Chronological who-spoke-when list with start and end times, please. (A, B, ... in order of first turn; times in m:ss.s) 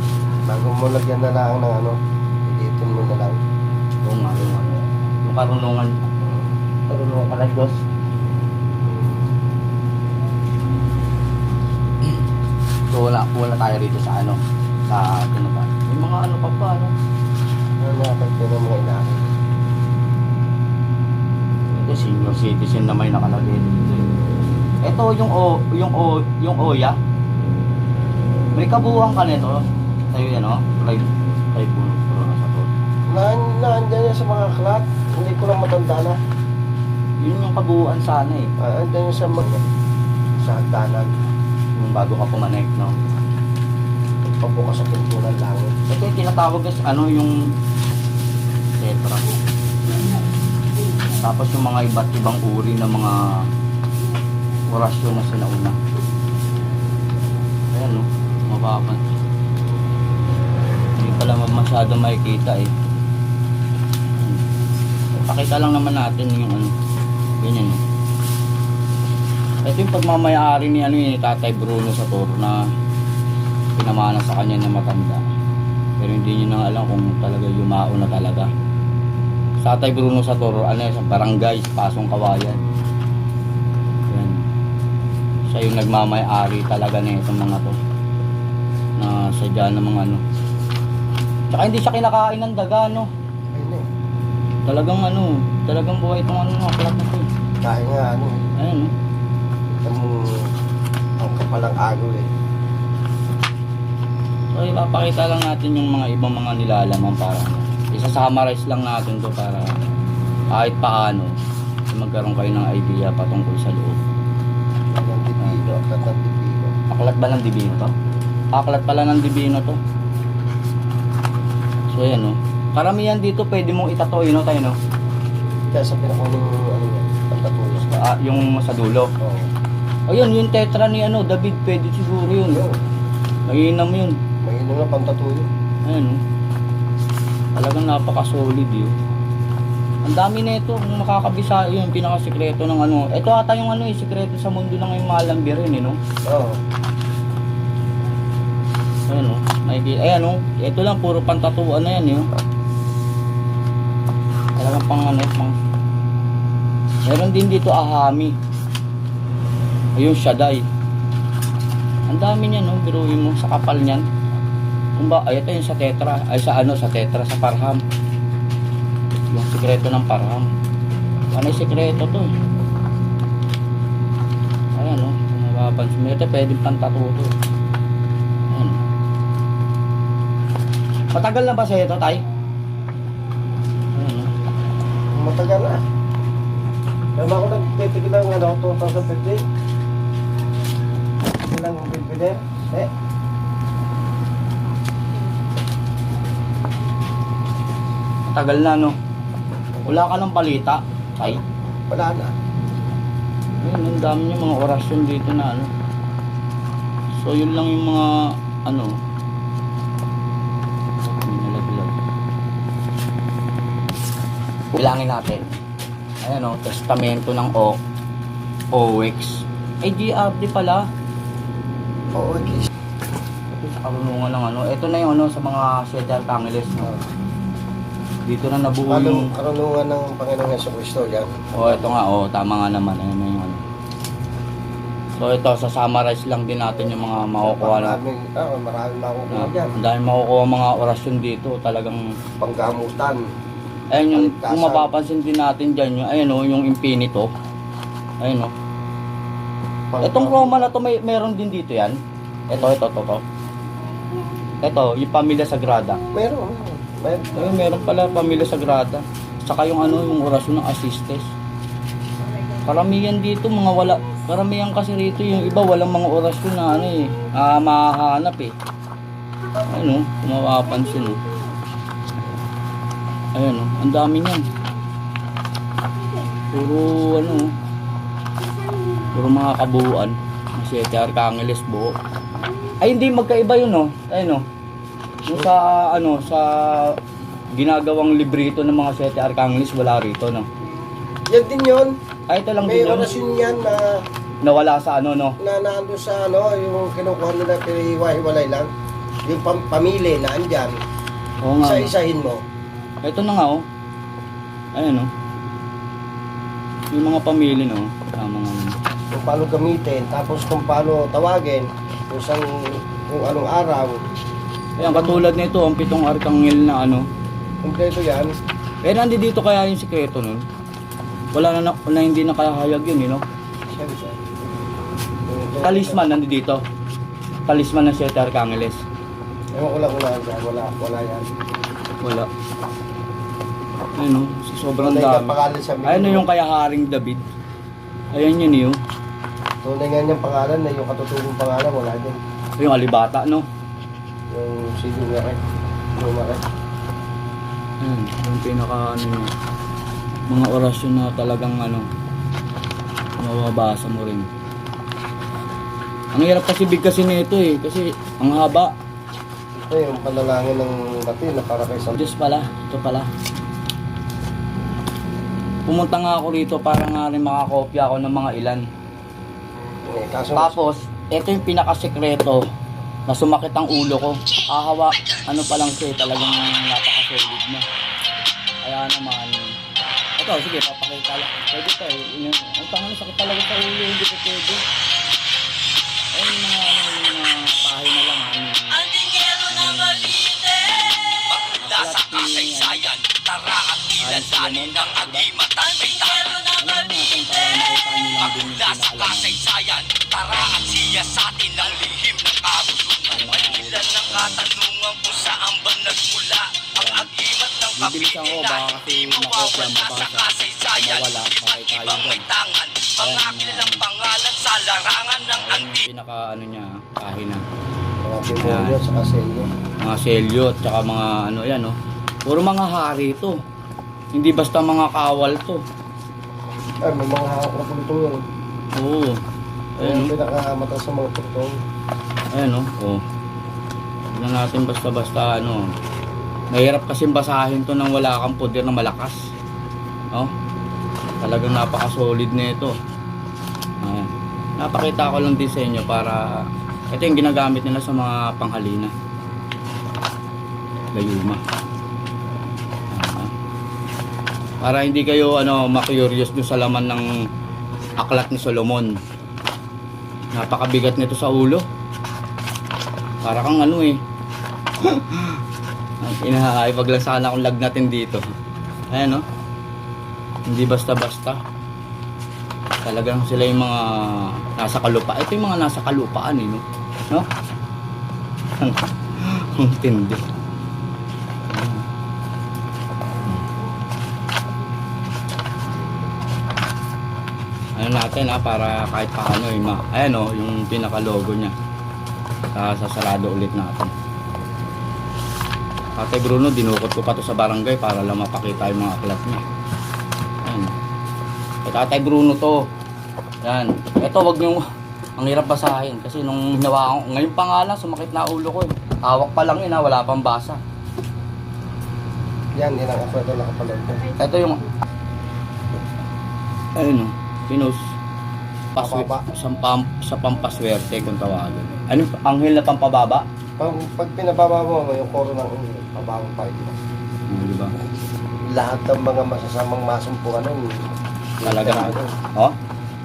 0:00.4-0:03.4 A
0:04.0-0:06.0 B
0:06.9-0:07.8 B
0:12.9-0:16.9 B
0:17.8-0:19.3 A
0:21.7-0:24.1 B
0:24.8-0:27.0 B
0:28.5-0:32.7 B
0:33.1-0:36.2 A
0:37.2-0:38.5 B
0:38.6-0:39.6 A
0:40.4-0:41.1 A
0:41.8-0:42.9 B
0:44.4-0:45.7 A
0:45.9-0:47.5 B
0:48.8-0:49.3 B
0:51.2-0:53.5 B
0:54.7-0:55.8 B
0:57.7-0:59.0 B
1:01.0-1:02.7 B
1:04.2-1:04.4 B
1:05.1-1:06.7 B
1:07.4-1:07.8 B
1:09.6-1:12.6 B
1:13.8-1:15.2 B
1:16.0-1:18.5 B
1:19.6-1:22.6 B
1:24.1-1:24.4 B
1:25.5-1:27.8 B
1:29.0-1:30.2 B
1:31.5-1:33.1 B
1:33.5-1:33.8 A
1:34.7-1:37.3 B
1:37.6-1:38.4 A
1:38.6-1:38.9 B
1:39.8-1:40.5 A
1:41.2-1:42.3 A
1:44.5-1:49.7 B
1:50.5-1:51.3 B
1:51.9-1:54.0 B
1:54.9-1:56.7 A
1:56.9-1:57.9 B
1:58.5-1:59.8 B
2:01.9-2:04.8 B
2:05.7-2:07.8 A
2:07.8-2:09.1 B
2:09.2-2:09.5 A
2:10.1-2:12.6 B
2:12.5-2:12.8 A
2:13.5-2:14.2 B
2:14.4-2:15.5 A
2:15.8-2:16.2 B
2:17.5-2:18.9 B
2:20.0-2:26.0 B
2:26.2-2:26.6 A
2:29.1-2:32.3 B
2:34.6-2:35.6 B
2:37.0-2:38.4 B
2:40.0-2:40.6 B
2:42.1-2:44.1 B
2:45.0-2:47.8 B
2:49.3-2:50.5 B
2:51.3-2:52.3 B
2:54.7-2:57.3 B
2:58.5-2:58.8 B
3:01.1-3:02.2 B
3:03.9-3:04.3 B
3:05.1-3:05.8 A
3:07.2-3:09.4 A
3:11.4-3:12.9 A
3:18.3-3:19.0 B
3:19.9-3:21.4 B
3:21.9-3:22.3 A
3:23.6-3:25.7 B
3:27.1-3:29.0 B
3:31.1-3:31.9 B
3:34.7-3:35.5 B
3:36.2-3:37.8 B
3:38.7-3:40.9 B
3:42.1-3:42.7 A
3:43.5-3:46.9 B
3:48.3-3:49.3 B
3:48.9-3:52.0 A
3:51.5-3:53.6 B
3:55.2-3:58.0 B
3:57.4-3:59.7 A
3:59.3-4:02.1 B
4:02.4-4:03.2 A
4:03.9-4:07.3 B
4:04.1-4:04.9 A
4:08.2-4:08.5 B
4:09.9-4:10.7 A
4:10.0-4:12.0 B
4:12.5-4:13.2 B
4:14.6-4:16.0 B
4:16.1-4:17.5 A
4:17.3-4:21.3 B
4:22.6-4:28.5 B
4:29.7-4:31.2 B
4:33.3-4:34.4 B
4:36.5-4:37.5 B
4:39.1-4:41.9 B
4:42.8-4:44.4 B
4:45.2-4:47.0 B
4:47.5-4:50.5 B
4:51.3-4:52.0 A
4:52.3-4:53.1 B
4:52.6-4:54.0 A
4:54.4-4:55.4 B
4:55.4-4:58.7 A
4:59.2-5:00.8 A
5:01.4-5:01.9 B
5:01.6-5:02.4 A
5:03.0-5:03.6 B
5:04.7-5:05.1 B
5:06.9-5:08.8 B
5:09.1-5:14.0 A
5:14.8-5:17.0 B
5:14.8-5:15.2 A
5:17.6-5:18.4 A
5:18.8-5:20.4 B
5:21.3-5:23.2 B
5:23.7-5:24.2 A
5:25.3-5:26.0 A
5:25.6-5:26.6 B
5:27.5-5:28.8 B
5:29.5-5:31.3 A
5:32.0-5:32.3 B
5:34.0-5:35.3 B
5:34.8-5:36.2 A
5:35.8-5:37.2 B
5:38.1-5:38.8 B
5:39.6-5:42.2 A
5:42.6-5:43.4 B
5:44.3-5:45.4 A
5:46.0-5:46.4 A
5:47.8-5:49.3 B
5:50.3-5:51.9 B
5:53.2-5:54.3 B
5:56.1-5:58.7 B
5:59.6-6:02.0 A
6:02.0-6:03.1 B
6:05.7-6:08.6 B
6:09.9-6:10.6 A
6:10.3-6:12.4 B
6:13.1-6:17.6 B
6:18.6-6:19.3 B
6:20.2-6:24.6 B
6:26.1-6:28.9 B
6:28.8-6:37.0 C
6:29.5-6:30.2 B
6:31.6-6:32.8 B
6:34.0-6:35.3 B
6:36.6-6:39.4 B
6:38.2-6:55.8 C
6:40.3-6:41.2 B
6:43.1-6:44.4 B
6:46.7-6:47.1 B
6:47.8-6:52.2 B
6:53.0-6:53.8 B
6:55.3-6:57.4 B
6:58.0-6:59.5 A
6:58.4-6:58.8 B
6:59.8-7:03.4 B
7:04.1-7:05.6 B
7:06.8-7:08.2 A
7:08.7-7:09.2 B
7:09.8-7:11.5 A
7:09.8-7:10.1 B
7:12.3-7:13.0 B
7:14.1-7:15.7 B
7:16.5-7:19.2 B
7:21.2-7:22.8 B
7:23.8-7:28.9 B
7:30.9-7:31.4 B
7:32.9-7:33.3 B
7:34.6-7:37.1 B
7:38.0-7:39.0 B
7:40.3-7:41.6 B
7:43.2-7:44.0 B
7:44.8-7:45.4 B
7:46.0-7:48.2 B
7:48.9-7:49.2 B
7:50.5-7:51.4 B
7:52.8-7:57.3 B
7:58.6-8:00.2 B
8:01.5-8:01.9 B
8:07.8-8:11.5 B
8:12.5-8:13.9 B
8:16.0-8:19.4 B
8:20.4-8:20.7 B
8:21.6-8:22.7 B
8:23.4-8:24.6 B
8:25.2-8:30.6 B
8:32.5-8:34.1 A
8:34.2-8:34.6 B
8:36.8-8:37.8 B
8:38.7-8:43.2 B
8:38.8-8:39.2 A
8:43.6-8:46.7 A
8:47.3-8:47.7 B
8:48.5-8:50.8 A
8:51.4-8:52.1 A
8:51.4-8:52.5 B